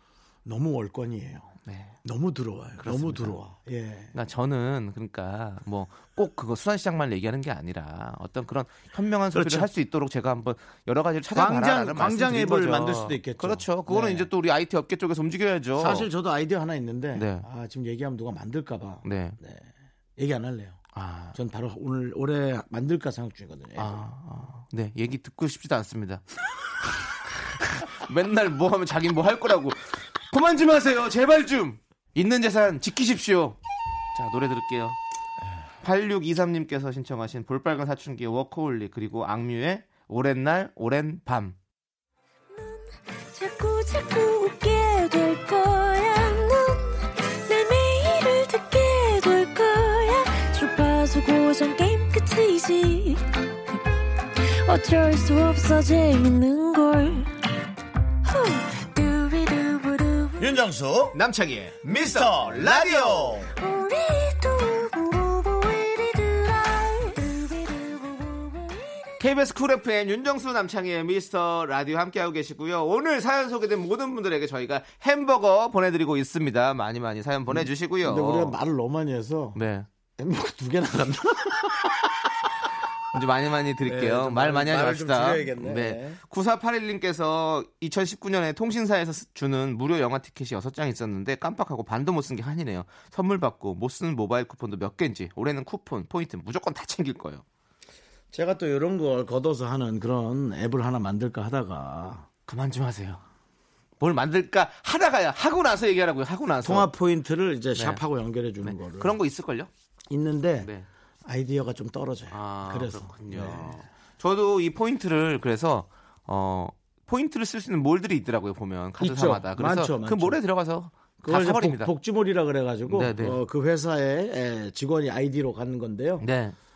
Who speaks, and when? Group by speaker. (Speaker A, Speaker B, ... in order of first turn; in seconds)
Speaker A: 0.5-4.1, 9.3-9.7, 11.3-14.3, 15.8-20.8, 21.3-24.0, 60.4-61.2, 61.8-63.5, 77.5-79.6, 80.2-82.7, 83.8-86.2, 98.3-102.3, 106.6-109.2, 110.1-110.7, 111.2-113.8, 119.0-120.4, 121.2-126.3
Speaker B: 1.7-1.9, 2.8-3.4, 4.1-16.1, 17.1-17.5, 19.0-19.4, 20.9-21.4, 23.8-26.2, 27.5-33.6, 34.1-35.0, 35.8-41.6, 61.1-63.4, 69.2-78.6, 79.5-79.9, 83.1-97.4, 102.5-103.2, 104.0-106.9, 107.8-108.0, 108.6-109.7, 110.6-110.9, 112.3-121.9, 122.9-123.4, 126.2-126.6
Speaker C: 42.5-53.8, 54.4-57.3, 58.2-60.5, 63.6-69.2